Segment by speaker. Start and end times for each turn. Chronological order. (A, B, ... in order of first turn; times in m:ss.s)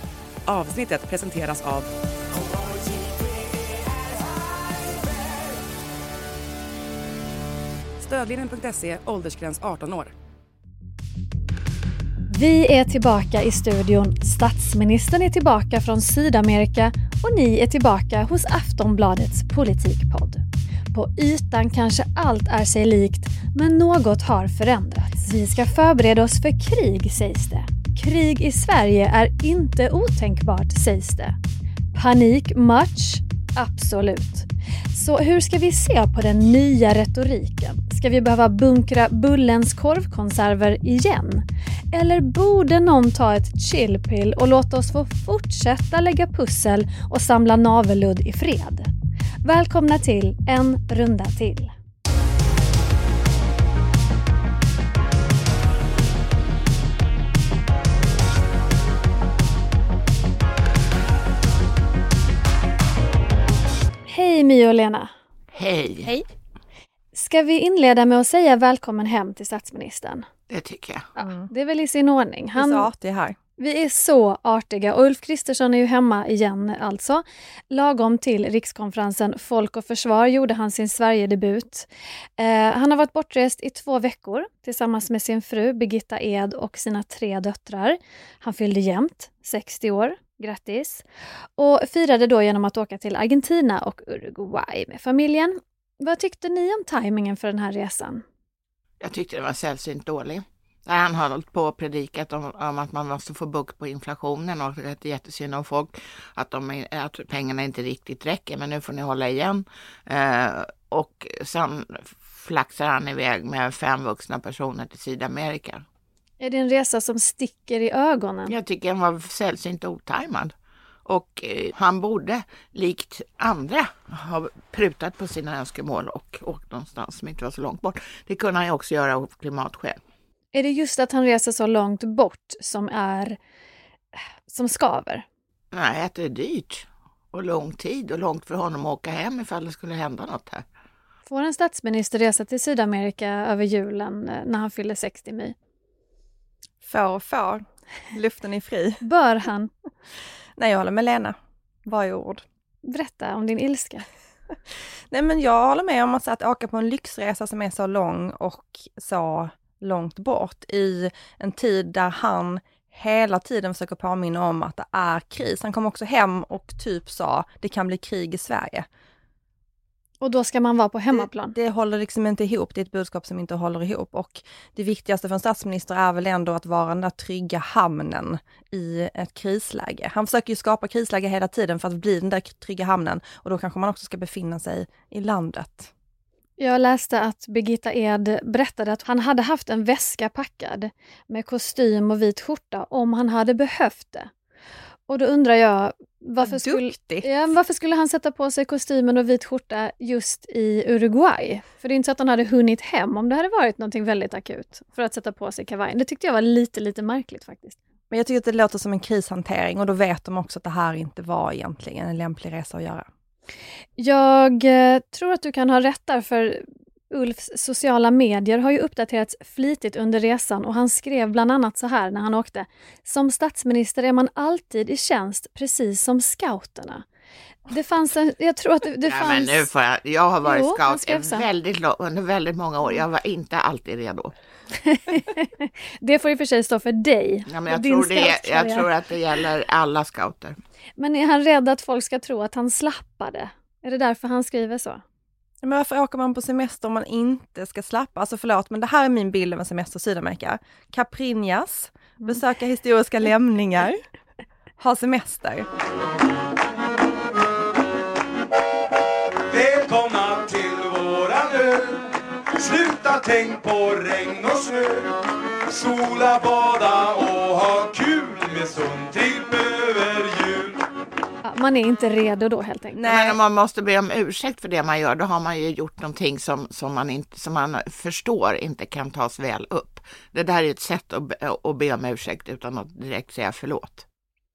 0:00.5-0:01.9 A
0:08.0-0:10.1 A
0:12.3-0:20.4 B
0:20.9-0:31.4 B
0:31.9-0:48.9 B
0:49.4-0:51.7 B
1:04.1-1:05.1 B
1:05.5-1:06.1 C
1:07.1-1:10.3 B
1:10.5-1:11.1 C
1:11.2-1:12.9 B
1:11.2-1:11.5 D
1:12.6-1:13.4 D
1:13.6-1:21.9 B
1:22.4-1:31.0 B
1:31.6-1:38.2 B
1:39.0-1:55.8 C
1:56.4-1:58.5 B
1:58.5-2:00.5 C
2:01.1-2:10.0 C
2:10.5-2:13.4 B
2:14.5-2:15.2 B
2:15.7-2:20.6 C
2:21.3-2:25.5 B
2:26.8-2:29.0 D
2:29.0-2:29.7 B
2:30.6-2:32.4 D
2:32.8-2:34.0 B
2:35.1-2:48.9 D
2:50.2-2:51.6 B
2:51.1-3:05.9 D
3:06.6-3:14.3 B
3:15.1-3:27.8 B
3:16.4-3:17.3 D
3:28.1-3:33.1 D
3:34.0-3:47.0 B
3:47.7-3:49.7 B
3:49.0-3:54.3 C
3:50.4-3:51.4 B
3:54.8-3:58.9 B
3:57.5-4:00.6 C
4:01.0-4:05.0 B
4:05.6-4:14.0 D
4:14.8-4:15.7 D
4:19.5-4:25.1 E
4:25.7-4:30.8 E
4:31.4-4:33.0 B
4:33.0-4:33.4 D
4:33.0-4:44.0 C